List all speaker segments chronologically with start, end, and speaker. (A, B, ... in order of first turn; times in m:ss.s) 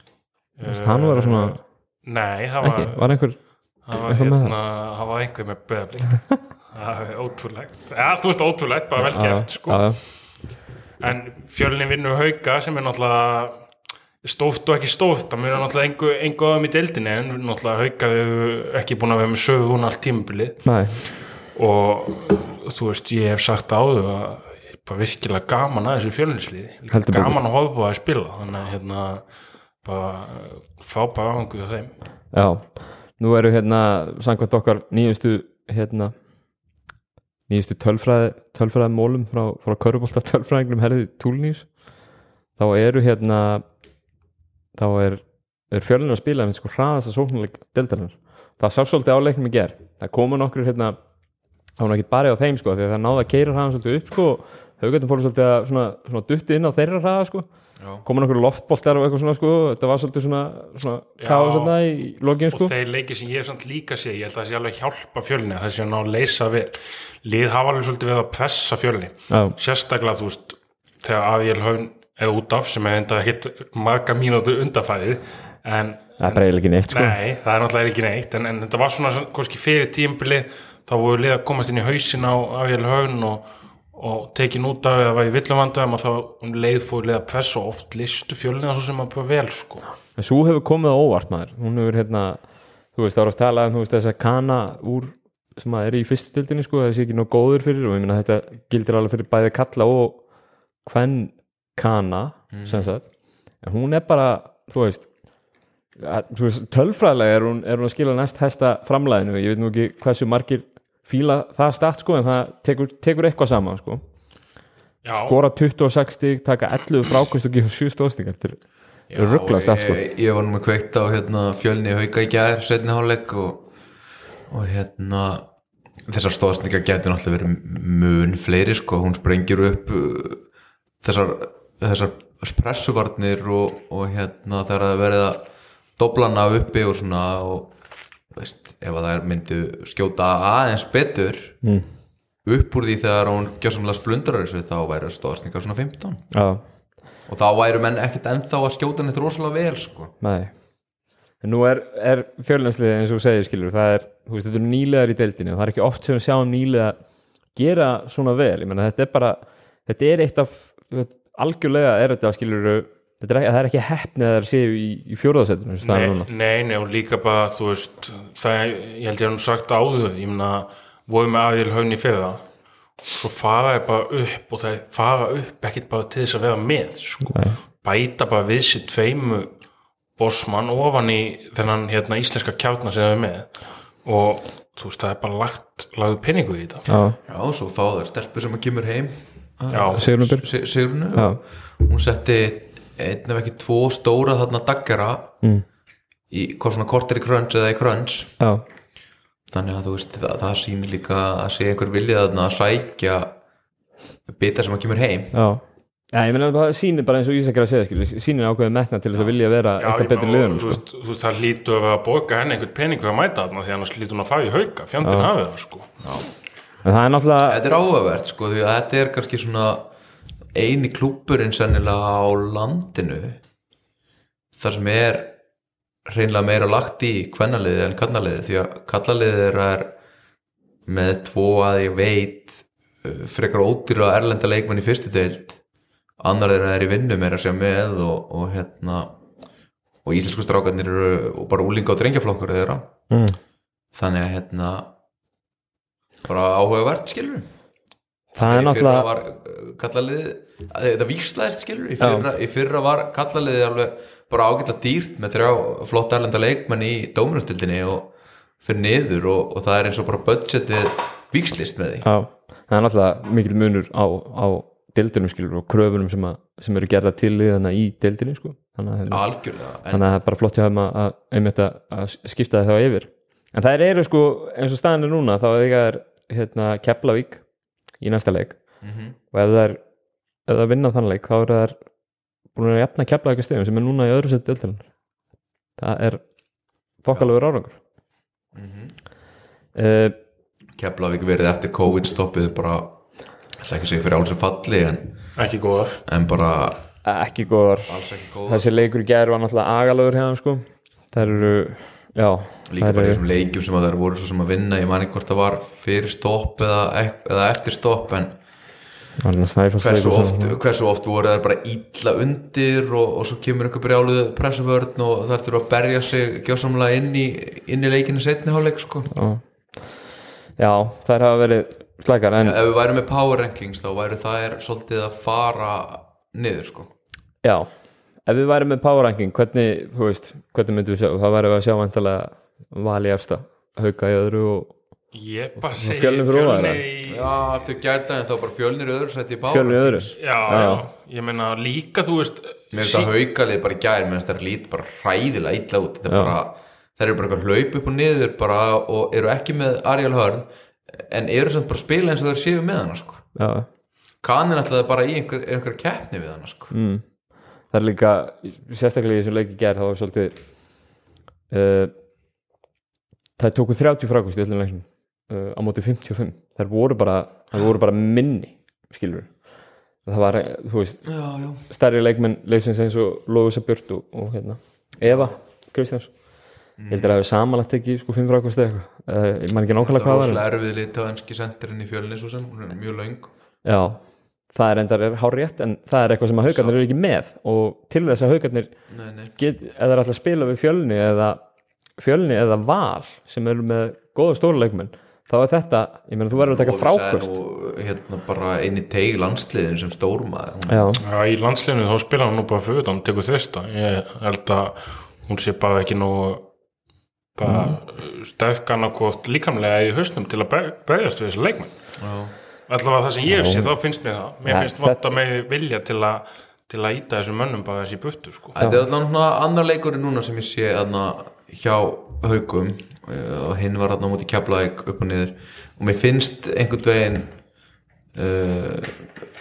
0:00.6-0:03.2 A
0:00.7-0:01.6 B
0:02.6-0:04.5 B
0:03.8-0:10.1 A
0:09.0-0:10.0 B
0:11.0-0:13.6 A
0:14.2-0:29.2 A
0:20.6-0:21.0 B
0:26.9-0:27.4 B
0:29.8-0:31.9 A
0:32.3-0:36.1 B
0:37.5-0:41.7 B
0:42.6-0:43.6 B
0:44.8-0:51.0 B
0:51.8-0:57.5 B
0:58.0-1:02.7 B
1:01.2-1:01.8 A
1:02.5-1:29.8 A
1:09.3-1:09.6 B
1:16.2-1:17.2 B
1:30.2-1:40.2 B
1:40.8-1:43.0 B
1:42.5-1:42.9 C
1:43.6-1:45.1 B
1:46.0-1:54.0 B
1:55.0-1:55.4 A
1:55.1-1:58.6 B
1:59.1-2:03.6 C
1:59.2-2:00.0 B
2:04.5-2:05.5 C
2:06.1-2:10.4 C
2:11.0-2:17.7 C
2:18.3-2:21.6 C
2:22.4-2:26.3 C
2:26.3-2:26.6 B
2:27.3-2:30.1 C
2:30.2-2:30.5 B
2:31.4-2:37.0 B
2:37.5-2:46.3 B
2:45.8-2:52.4 A
2:53.0-2:59.5 A
2:57.3-2:57.6 B
3:00.2-3:06.9 A
3:06.9-3:07.2 B
3:07.3-3:15.3 C
3:09.7-3:10.1 A
3:09.9-3:10.5 B
3:11.1-3:11.4 B
3:16.3-3:18.3 C
3:19.5-3:23.3 C
3:24.3-3:25.3 C
3:25.3-3:25.6 B
3:26.1-3:30.8 B
3:29.8-3:35.9 A
3:35.0-3:35.3 B
3:36.0-3:36.3 C
3:36.8-3:37.7 B
3:37.5-3:39.9 C
3:40.5-3:43.4 C
3:44.6-3:45.4 C
3:46.1-3:49.9 C
3:50.9-3:55.6 C
3:56.2-3:59.2 C
4:00.0-4:02.9 C
4:03.1-4:03.4 B
4:03.9-4:04.9 C
4:06.2-4:07.5 C
4:08.3-4:09.1 B
4:08.4-4:22.1 C
4:12.0-4:12.3 B
4:22.0-4:29.2 B
4:29.1-4:30.0 C
4:29.9-4:37.4 B
4:38.0-4:38.6 B
4:38.8-4:39.2 C
4:39.3-4:39.8 B
4:40.5-4:41.8 B
4:42.5-4:44.9 B
4:45.8-4:46.2 B
4:47.0-4:47.8 B
4:48.5-4:49.0 C
4:49.8-4:50.2 B
4:50.8-4:53.0 C
4:53.6-4:55.2 C
4:55.4-4:56.0 A
4:56.1-4:56.8 C
4:57.0-5:03.2 B
4:57.9-4:58.7 C
5:02.7-5:08.4 C
5:09.2-5:10.6 B
5:09.8-5:19.1 C
5:19.1-5:19.4 B
5:20.6-5:22.6 B
5:22.4-5:26.9 C
5:27.4-5:27.7 B
5:28.2-5:34.7 B
5:35.1-5:37.4 A
5:35.7-5:36.8 B
5:37.1-5:40.7 C
5:39.5-5:40.8 B
5:40.2-5:43.1 A
5:42.7-5:53.2 C
5:46.1-5:46.3 B
5:53.4-5:53.7 B
5:54.2-5:56.7 C
5:56.7-5:57.1 B
5:57.7-6:00.4 B
6:01.5-6:01.9 B
6:03.4-6:09.5 B
6:10.0-6:11.1 B
6:11.0-6:11.6 C
6:11.6-6:16.3 B
6:16.8-6:17.2 C
6:16.9-6:20.4 B
6:19.8-6:23.3 C
6:23.6-6:24.0 B
6:24.5-6:28.7 B
6:28.9-6:29.3 C
6:29.4-6:31.4 B
6:32.0-6:37.3 B
6:36.3-6:40.9 C
6:40.7-6:41.0 B
6:41.0-6:46.5 A
6:47.4-6:51.7 A
6:47.4-6:47.8 B
6:52.0-6:52.3 C
6:52.7-6:58.6 A
6:53.3-6:53.7 B
6:54.5-6:55.0 B
6:58.5-7:07.3 C
6:58.6-6:58.8 B
7:08.1-7:09.1 C